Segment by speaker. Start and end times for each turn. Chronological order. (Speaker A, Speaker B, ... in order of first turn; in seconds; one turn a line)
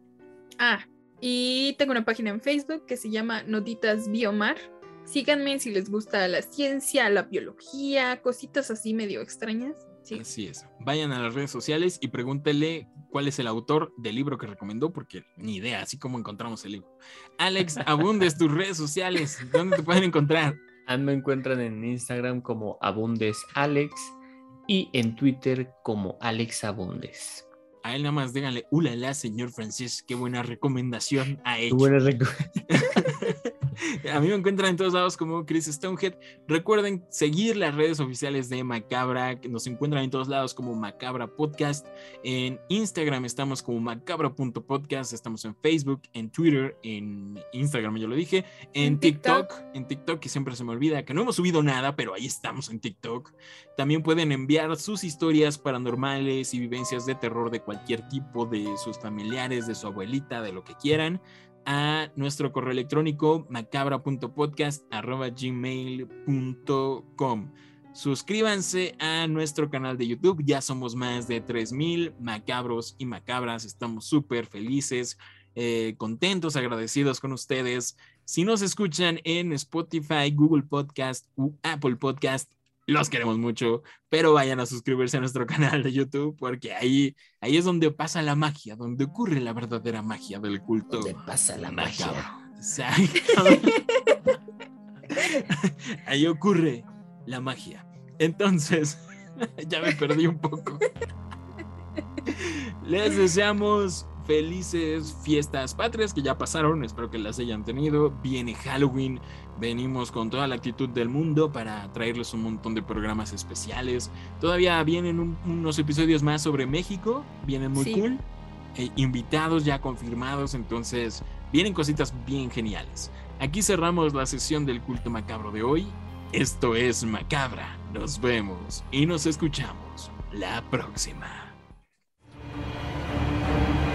Speaker A: 0.6-10.2
Speaker B: 10.1-20.6
Speaker C: 20.8-24.1
Speaker C: 24.7-27.5
Speaker B: 27.8-31.9
Speaker C: 31.7-32.8
Speaker B: 32.7-33.4
Speaker B: 34.0-93.8
Speaker A: 48.8-49.5
Speaker C: 90.9-92.3
Speaker B: 95.2-100.8
Speaker B: 102.3-118.2
Speaker A: 117.8-118.0
Speaker B: 118.7-131.6